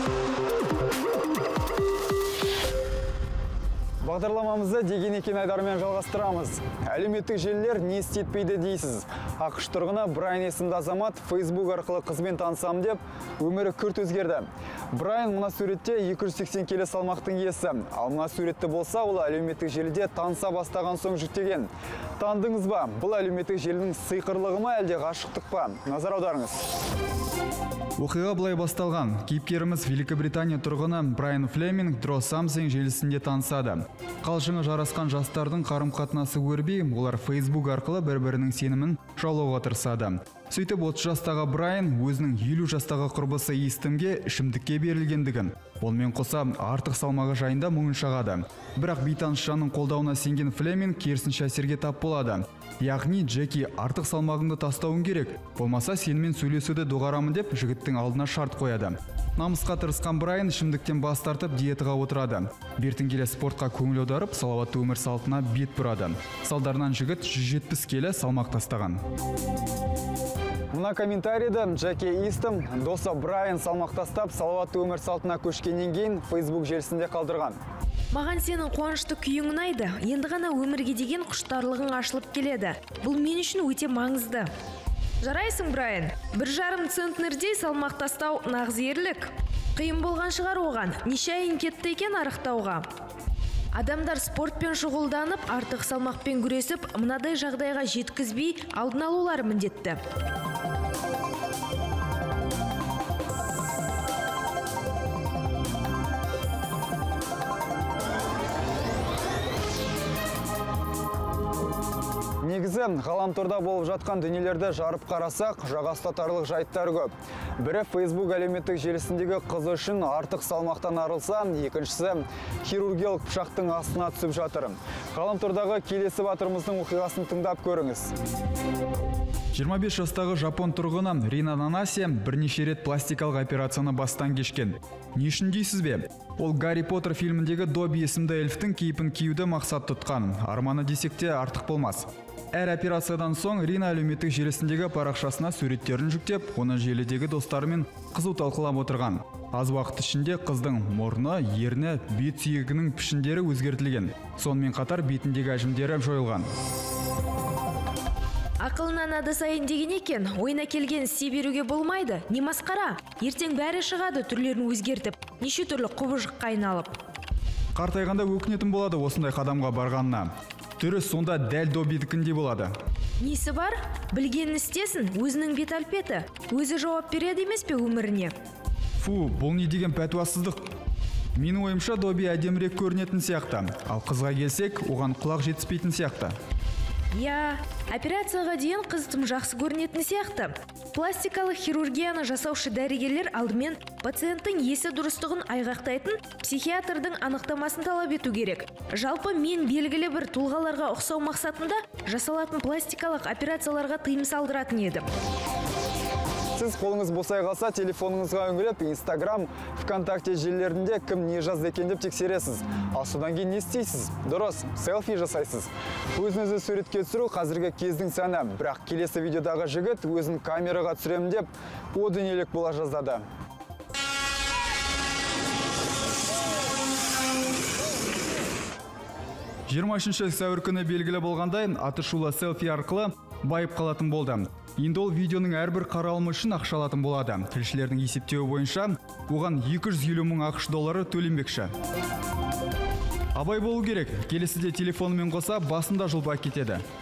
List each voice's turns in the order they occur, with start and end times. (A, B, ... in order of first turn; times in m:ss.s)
0:04.0-0:26.6 A
0:28.0-1:09.0 B
1:10.7-1:17.6 A
1:18.1-1:24.5 C
1:25.2-1:32.9 C
1:33.7-1:40.0 C
1:52.4-2:08.1 A
2:09.5-2:36.5 B
2:38.6-2:47.0 C
2:47.8-2:52.7 B
2:53.2-2:58.3 C
2:59.0-3:00.6 B
3:01.4-3:06.4 B
3:07.1-3:25.1 C
3:26.6-3:43.2 A
3:49.7-4:01.7 B
4:03.3-4:06.8 B